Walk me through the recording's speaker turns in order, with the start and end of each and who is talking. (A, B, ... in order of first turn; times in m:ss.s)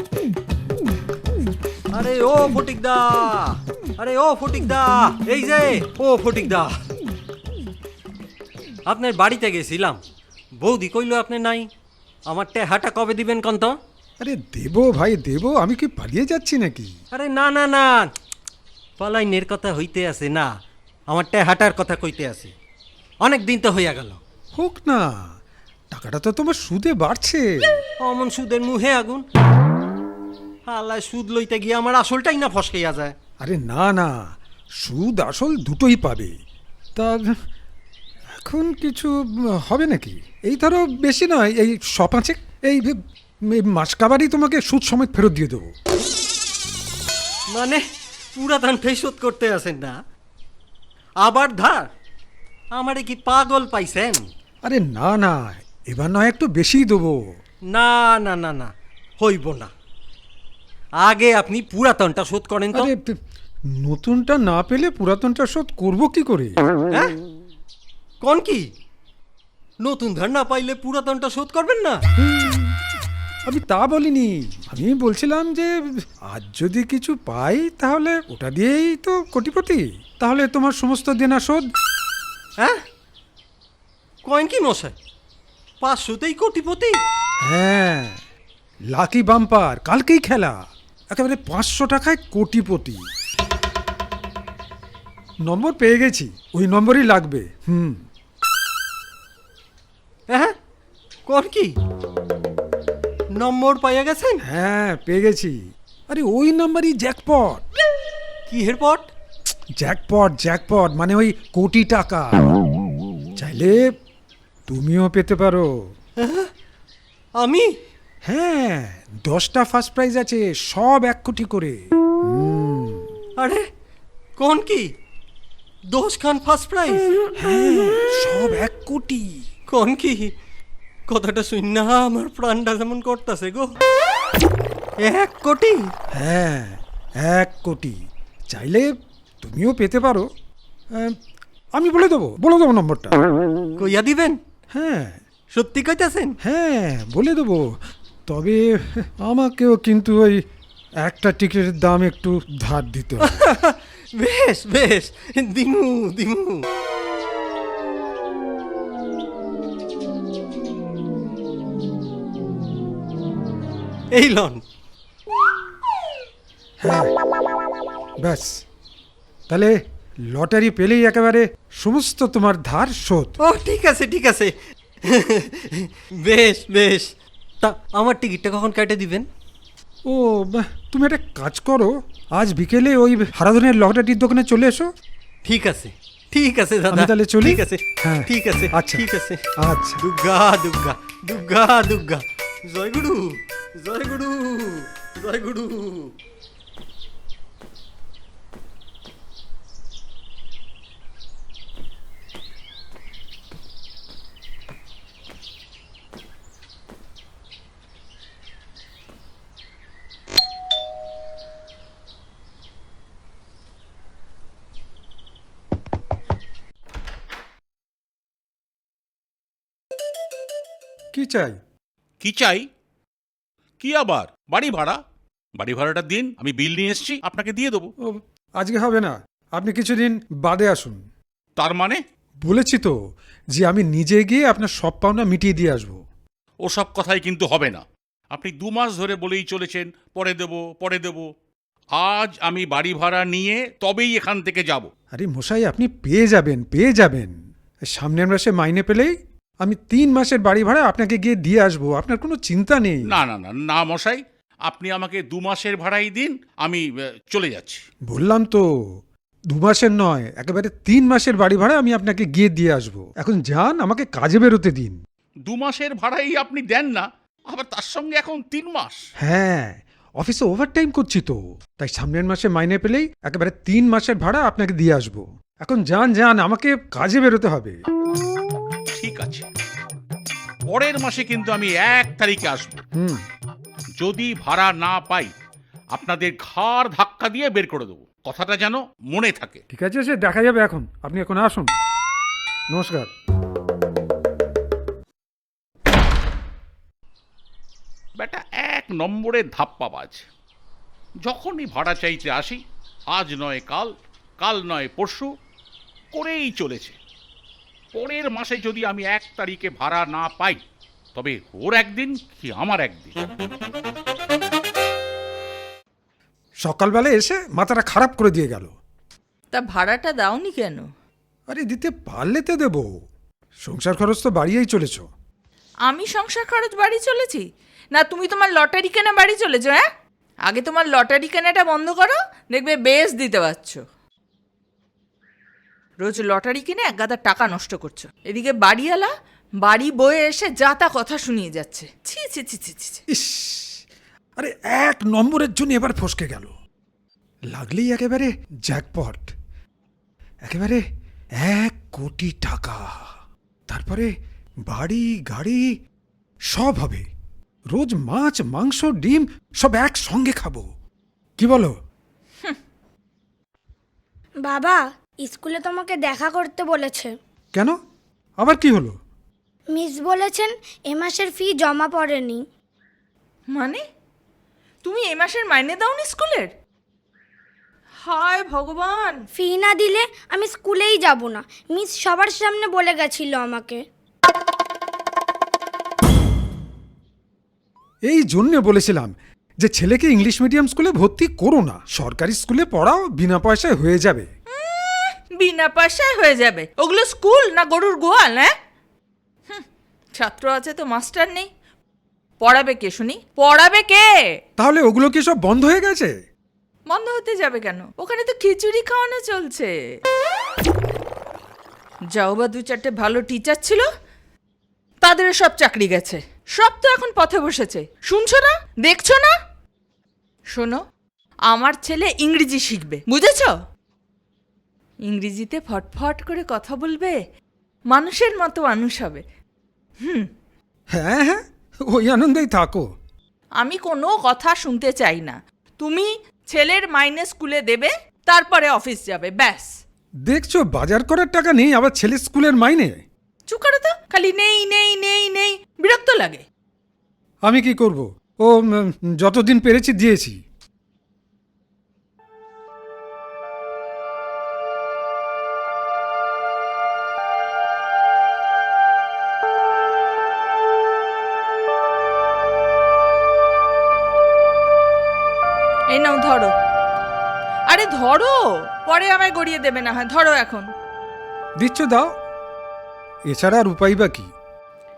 0:01.9-0:06.7 A
0:08.9-0:10.0 A
0:10.6-0:11.7 A
0:12.3-0:13.7 A
0:14.2-0:16.9 B
0:17.1-0:18.1 A
0:19.0-0:20.5 A
0:21.1-0:22.5 A
0:23.2-0:24.2 A
0:24.5-0:25.1 B
0:25.9-0:27.8 B
0:28.0-0:29.2 A
0:30.7-0:33.1 A
0:33.4-0:36.3 B
0:37.0-0:37.4 B
0:38.4-0:45.7 B
0:47.5-0:47.8 A
0:48.3-0:49.9 A
0:51.2-0:51.8 A
0:52.7-0:54.2 A
0:54.6-0:57.2 B
0:57.7-0:59.7 A
1:01.0-1:02.9 A
1:02.7-1:03.2 B
1:03.7-1:06.6 B
1:08.2-1:08.6 A
1:09.8-1:12.0 A
1:12.2-1:12.7 B
1:13.4-1:21.7 B
1:24.2-1:24.9 A
1:25.8-1:27.0 A
1:27.4-1:28.2 B
1:28.9-1:30.6 B
1:31.1-1:33.0 B
1:35.4-1:38.1 B
1:40.3-1:40.5 A
1:41.3-1:41.7 A
1:43.4-1:44.4 A
1:44.4-1:45.6 B
1:46.1-1:47.6 B
1:48.5-1:49.1 A
1:49.8-1:52.4 B
1:53.4-1:53.8 B
1:54.7-1:55.7 B
1:56.2-1:56.5 A
1:57.4-1:57.7 A
1:58.2-2:03.1 B
2:03.4-2:03.6 A
2:04.4-2:04.8 A
2:05.9-2:07.0 A
2:07.4-2:09.3 B
2:09.7-2:10.3 A
2:11.1-2:13.7 A
2:15.0-2:15.8 A
2:16.1-2:18.0 B
2:18.5-2:20.2 B
2:21.7-2:23.2 B
2:23.8-2:24.4 A
2:24.7-2:25.2 B
2:25.5-2:26.4 A
2:26.4-2:27.6 B
2:28.3-2:30.4 B
2:31.0-2:33.4 B
2:33.2-2:36.6 A
2:44.1-2:44.6 A
2:46.8-2:47.1 B
2:48.2-2:48.6 B
2:49.5-2:49.8 B
2:50.3-2:53.4 B
2:53.4-2:54.5 A
2:55.1-2:57.1 A
2:57.6-2:59.2 A
3:00.0-3:04.9 B
3:05.4-3:09.4 A
3:06.9-3:09.0 B
3:09.6-3:10.0 B
3:10.0-3:16.1 A
3:41.1-3:41.6 B
3:42.2-3:42.6 C
3:43.8-3:45.0 C
3:45.6-3:47.9 C
3:48.0-3:51.0 B
3:51.6-3:52.0 C
3:52.4-3:52.9 B
3:53.5-3:56.0 B
3:56.6-4:01.2 C
4:02.0-4:04.9 C
4:05.1-4:07.4 B
4:07.9-4:13.1 B
4:13.1-4:17.8 C
4:18.1-4:18.6 B
4:19.5-4:25.0 B
4:25.5-4:29.0 C
4:29.2-4:37.8 B
4:38.9-4:39.5 C
4:40.7-4:42.8 C
4:42.9-4:43.2 B
4:44.0-4:45.3 C
4:45.9-4:49.6 C
4:49.7-4:51.7 B
4:52.7-4:53.1 B
4:58.2-5:00.2 C
5:01.2-5:02.6 C
5:03.1-5:05.3 C
5:06.1-5:07.0 C
5:07.9-5:10.6 C
5:11.1-5:13.2 C
5:16.6-5:18.7 B
5:19.5-5:20.9 D
5:21.5-5:22.9 B
5:23.6-5:25.1 B
5:25.9-5:29.8 D
5:30.4-5:33.8 D
5:36.0-5:39.1 D
5:39.6-5:43.0 D
5:43.1-5:43.8 B
5:44.4-5:46.5 B
5:47.5-5:49.3 B
5:50.4-5:50.8 B
5:51.4-5:53.1 B
5:53.7-5:54.1 B
5:54.6-5:55.7 B
5:56.5-5:57.1 B
5:57.7-6:00.7 B
6:01.4-6:01.7 B
6:04.4-6:07.1 E
6:08.4-6:09.0 B
6:09.7-6:12.4 E
6:13.5-6:13.8 D
6:14.8-6:16.5 D
6:18.0-6:19.2 D
6:19.4-6:23.8 E
6:28.0-6:34.3 B
6:34.5-6:38.5 D
6:40.2-6:41.5 D
6:42.4-6:44.1 D
6:44.6-6:46.1 B
6:46.9-6:49.7 D
6:52.1-6:53.8 D
6:55.0-6:59.3 D
7:00.5-7:00.8 D
7:01.5-7:03.5 D
7:05.1-7:07.2 D
7:07.9-7:09.2 D
7:10.0-7:10.3 D
7:10.9-7:12.9 B
7:13.6-7:19.7 D
7:20.2-7:23.0 B
7:23.5-7:26.4 D
7:27.4-7:30.4 B
7:45.9-7:46.5 D
7:47.7-7:50.7 D
7:51.6-7:52.1 B
7:53.3-7:54.3 B